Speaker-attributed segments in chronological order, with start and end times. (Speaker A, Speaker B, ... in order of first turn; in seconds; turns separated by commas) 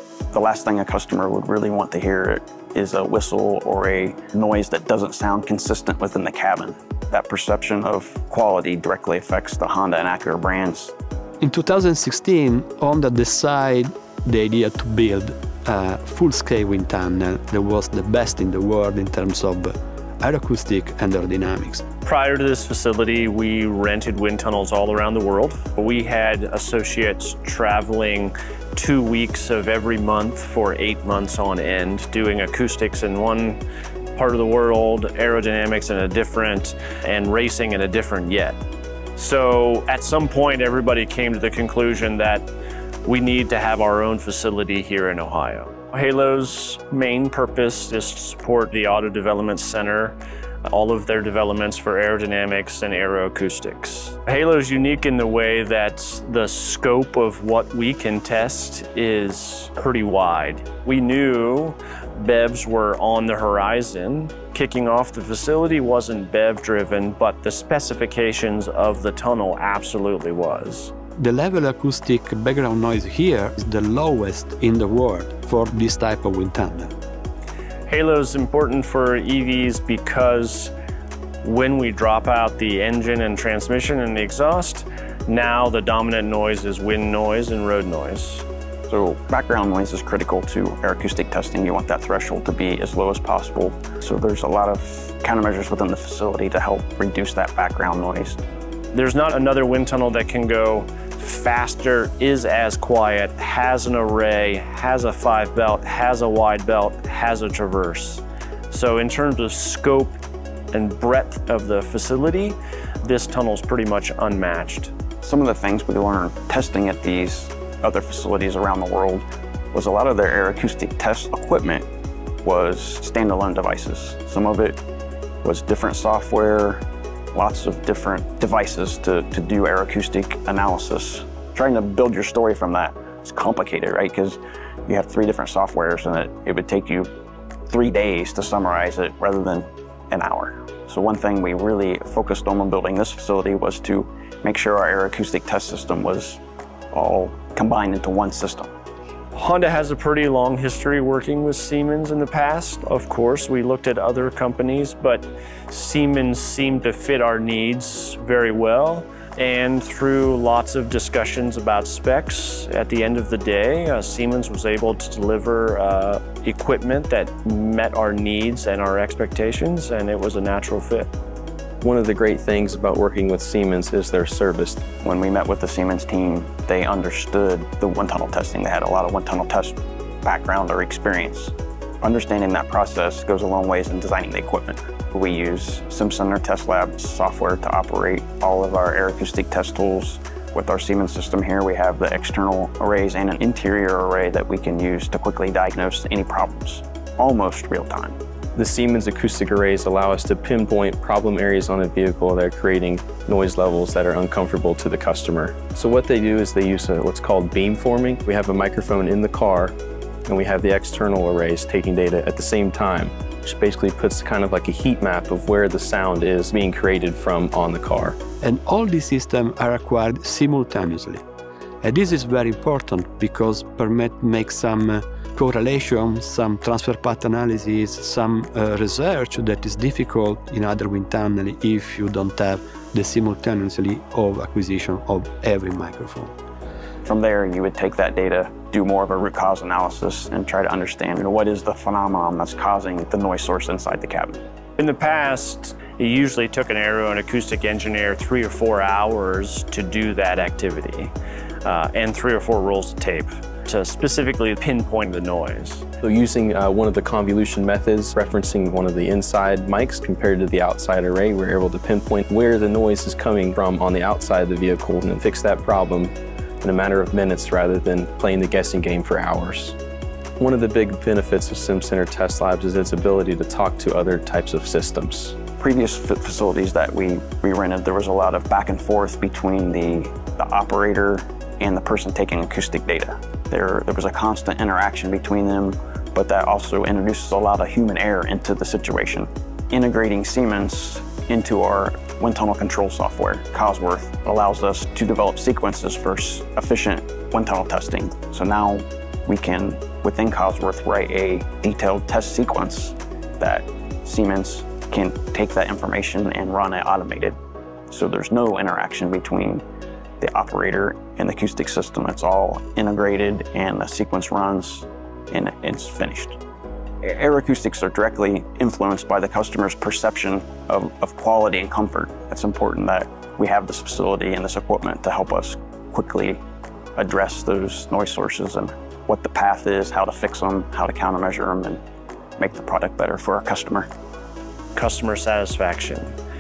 Speaker A: 0.3-10.9, Speaker B: 11.4-21.8, Speaker C: 22.0-33.6, Speaker C: 34.1-38.6, Speaker C: 39.2-42.5, Speaker C: 43.0-70.9, Speaker B: 71.2-76.9, Speaker C: 77.9-80.7, Speaker C: 81.4-88.5, Speaker A: 88.9-98.4, Speaker C: 98.9-110.2, Speaker C: 110.7-114.9, Speaker A: 115.2-121.9, Speaker A: 122.4-124.8, Speaker A: 125.4-126.8, Speaker A: 127.3-137.1, Speaker A: 137.7-146.4, Speaker A: 146.9-148.7, Speaker C: 149.3-171.1, Speaker D: 171.8-174.8, Speaker A: 175.0-198.2, Speaker D: 198.6-209.8, Speaker D: 210.3-218.2, Speaker B: 218.4-221.2, Speaker B: 221.8-236.3, Speaker A: 237.1-244.4, Speaker C: 244.8-251.1, Speaker C: 251.7-255.9, Speaker D: 256.0-269.8, Speaker D: 270.4-275.4, Speaker A: 275.6-307.4, Speaker A: 307.9-309.6, Speaker A: 310.2-316.4, Speaker A: 317.0-326.4, Speaker A: 327.0-331.8, Speaker A: 332.4-333.9, Speaker C: 334.8-336.1